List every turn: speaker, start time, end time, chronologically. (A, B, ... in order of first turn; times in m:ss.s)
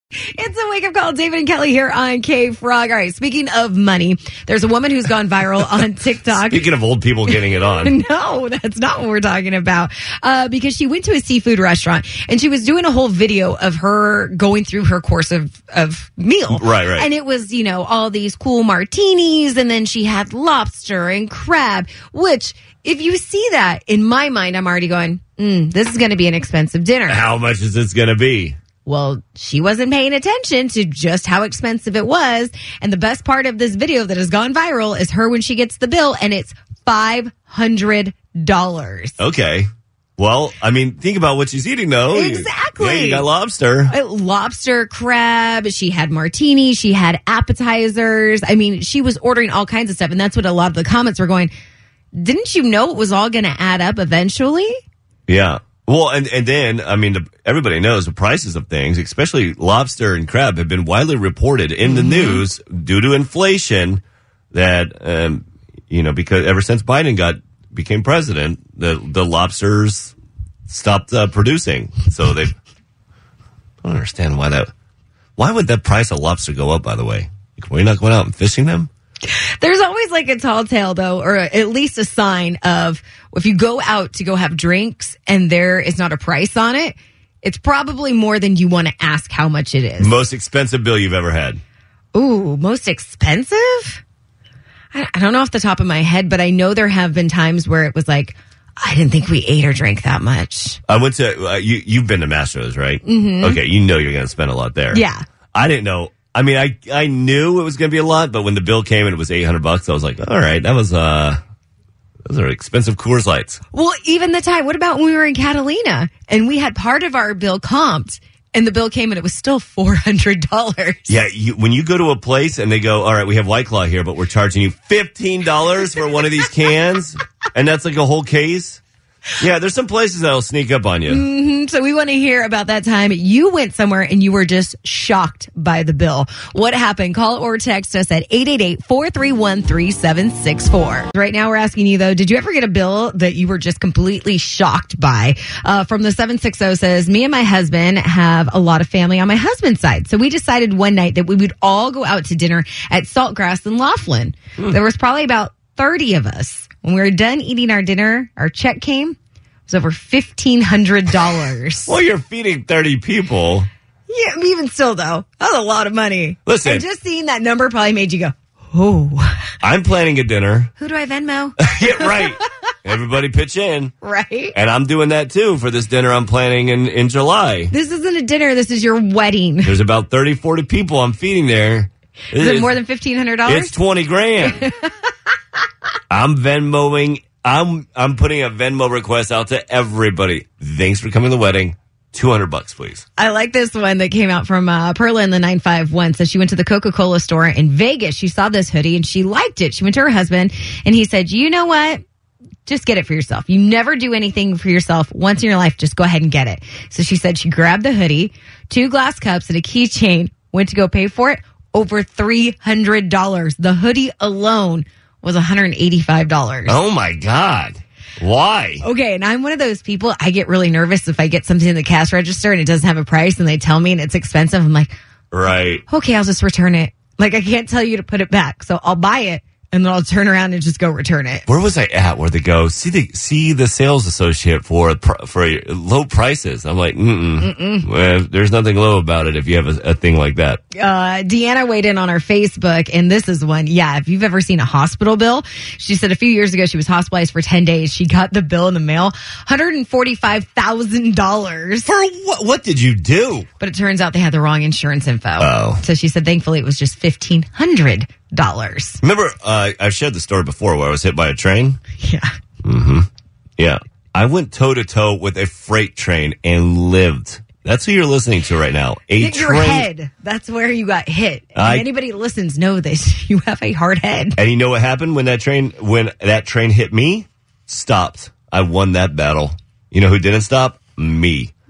0:00.4-0:06.6 A
0:06.3-0:07.9 B
0:07.3-0:27.2 A
0:16.5-0:17.1 B
0:27.1-0:28.6 B
0:28.8-0:39.2 A
0:39.2-0:43.9 B
0:42.1-0:43.3 A
0:43.9-0:51.5 A
0:52.1-0:54.8 A
0:55.3-1:10.1 B
1:01.8-1:02.4 A
1:10.7-1:12.5 B
1:13.8-1:14.7 B
1:15.4-1:18.9 B
1:19.2-1:30.2 A
1:30.0-1:31.6 B
1:32.1-1:34.0 A
1:34.9-1:40.8 A
1:40.9-1:45.0 B
1:43.0-1:43.6 A
1:44.9-1:45.2 A
1:45.5-1:51.4 B
1:52.2-1:53.6 B
1:53.7-2:01.2 A
2:01.1-2:08.8 B
2:09.4-2:11.2 B
2:11.1-2:39.2 A
2:39.7-2:41.9 A
2:41.9-2:43.7 B
2:44.1-2:49.5 A
2:46.4-2:46.8 B
2:49.6-2:50.7 B
2:50.8-2:52.5 A
2:51.6-2:53.9 B
2:54.0-2:54.6 A
2:54.5-2:57.7 B
2:57.7-2:59.8 A
2:59.6-3:02.8 B
3:02.3-3:03.7 A
3:03.4-3:04.6 B
3:04.6-3:04.9 A
3:06.1-3:13.0 B
3:13.2-3:22.0 A
3:22.6-3:36.8 A
3:36.7-3:38.8 B
3:38.8-3:44.9 A
3:45.3-3:45.8 B
3:45.9-3:51.5 A
3:51.5-4:00.6 B
3:57.4-3:57.9 A
4:00.7-4:11.9 A
4:11.8-4:13.5 B
4:13.6-4:19.0 A
4:15.4-4:15.8 B
4:19.0-4:21.8 B
4:22.0-4:22.3 A
4:22.6-4:23.1 B
4:23.6-4:29.9 B
4:29.2-4:34.4 A
4:31.5-4:31.9 B
4:34.4-4:41.5 B